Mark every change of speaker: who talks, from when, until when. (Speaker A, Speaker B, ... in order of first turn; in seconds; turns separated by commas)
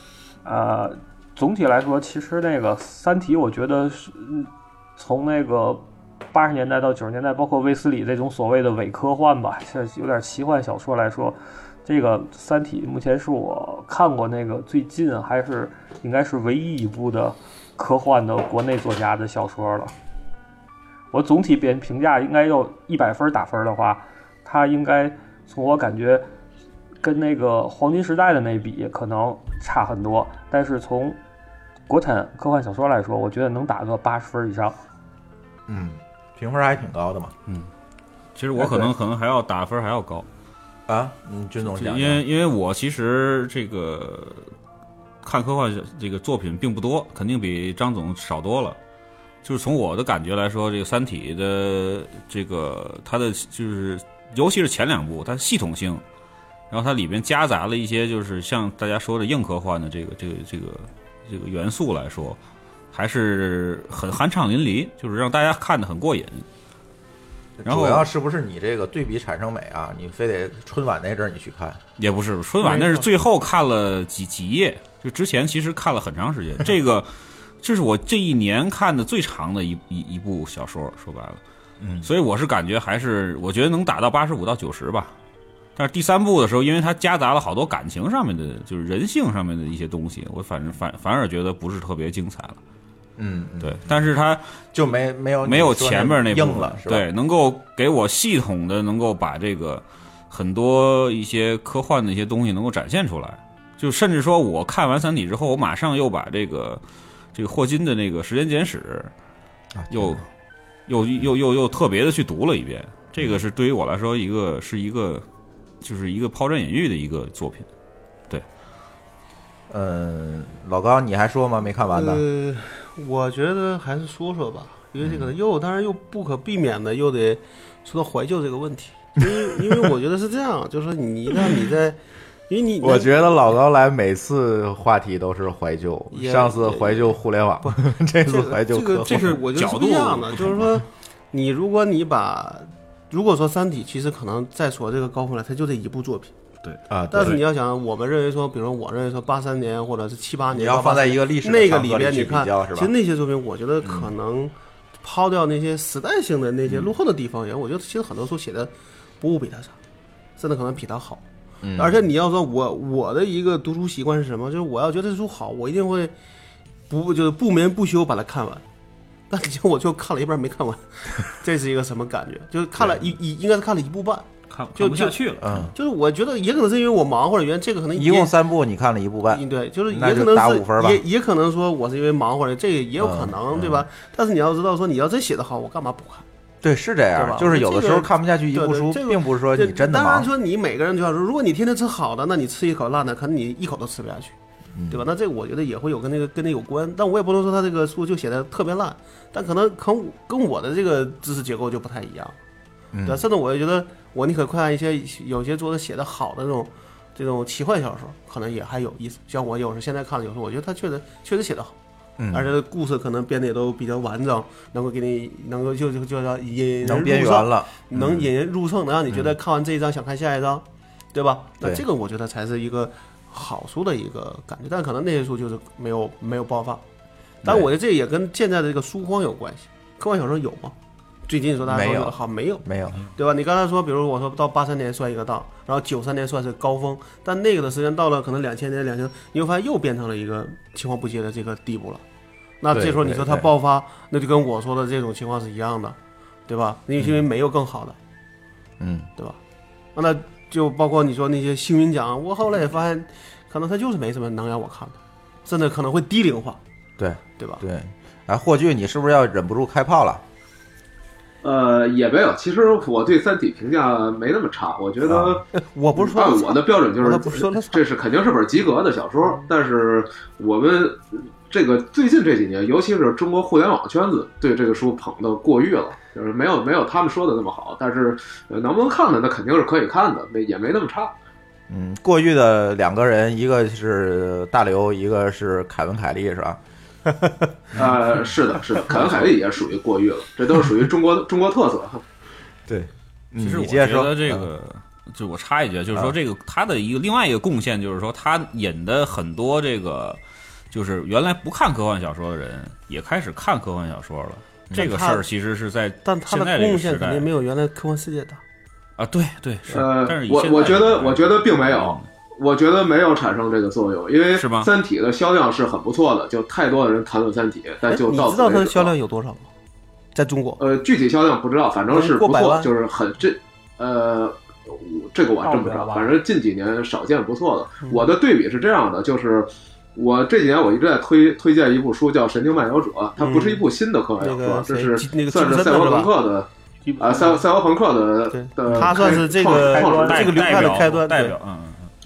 Speaker A: 0.5-19.9, Speaker A: 21.1-26.2, Speaker A: 27.0-31.2, Speaker A: 31.9-34.8, Speaker B: 35.7-37.3, Speaker C: 38.4-40.3, Speaker B: 40.9-42.2, Speaker C: 41.6-44.5, Speaker C: 45.2-48.8, Speaker C: 49.4-56.0, Speaker C: 56.7-62.4, Speaker C: 62.9-66.5, Speaker B: 67.6-71.8, Speaker C: 67.6-68.1, Speaker C: 72.0-77.1, Speaker D: 72.6-73.0, Speaker C: 77.6-81.4, Speaker B: 81.8-82.1, Speaker C: 82.0-85.1, Speaker C: 85.8-92.6, Speaker B: 93.2-94.1, Speaker C: 93.6-94.4, Speaker B: 94.7-97.0, Speaker C: 95.4-106.8, Speaker C: 107.3-109.1, Speaker B: 109.8-110.2, Speaker C: 109.9-110.2, Speaker C: 110.9-115.2, Speaker C: 115.8-117.7, Speaker B: 119.7-122.2, Speaker D: 121.9-133.3, Speaker B: 132.8-139.4, Speaker D: 136.1-146.3, Speaker C: 139.1-140.8, Speaker C: 146.6-147.4, Speaker B: 146.9-147.4, Speaker D: 147.1-159.8, Speaker B: 150.5-152.9, Speaker D: 160.4-161.2, Speaker B: 161.6-162.0, Speaker D: 161.8-166.1, Speaker D: 166.9-168.6, Speaker D: 169.3-178.3, Speaker B: 172.8-173.1, Speaker C: 174.5-175.7, Speaker B: 175.4-175.7, Speaker B: 177.9-181.0, Speaker D: 179.3-186.2, Speaker B: 183.0-183.9, Speaker B: 186.6-190.3, Speaker D: 187.2-194.3, Speaker B: 194.7-195.1, Speaker D: 194.9-202.4, Speaker B: 202.9-203.2, Speaker D: 203.1-211.7, Speaker B: 212.2-212.5, Speaker D: 212.3-226.8, Speaker B: 216.8-218.3, Speaker B: 219.1-219.3, Speaker B: 227.4-227.7, Speaker D: 227.4-230.7, Speaker D: 231.3-242.0, Speaker B: 231.6-233.0, Speaker D: 242.6-245.9, Speaker B: 242.7-243.5, Speaker D: 246.5-248.0, Speaker B: 248.8-249.1, Speaker D: 249.9-256.6, Speaker B: 257.0-260.2, Speaker E: 261.4-265.4, Speaker B: 265.0-265.4, Speaker D: 265.5-267.8, Speaker E: 265.9-281.1, Speaker B: 281.7-286.6, Speaker E: 287.7-292.0, Speaker B: 292.7-294.5, Speaker C: 293.4-300.2, Speaker C: 300.7-307.3, Speaker D: 304.7-305.2, Speaker D: 306.0-308.4, Speaker C: 309.0-312.1, Speaker E: 309.7-318.9, Speaker C: 314.3-314.7, Speaker D: 317.9-319.5, Speaker D: 320.1-320.6, Speaker E: 320.6-340.6, Speaker D: 321.9-322.7, Speaker A: 325.4-326.1, Speaker D: 327.8-328.1, Speaker D: 333.2-333.6, Speaker D: 334.2-336.1, Speaker A: 336.8-337.4, Speaker D: 338.3-341.4, Speaker A: 339.6-340.3, Speaker C: 340.0-341.9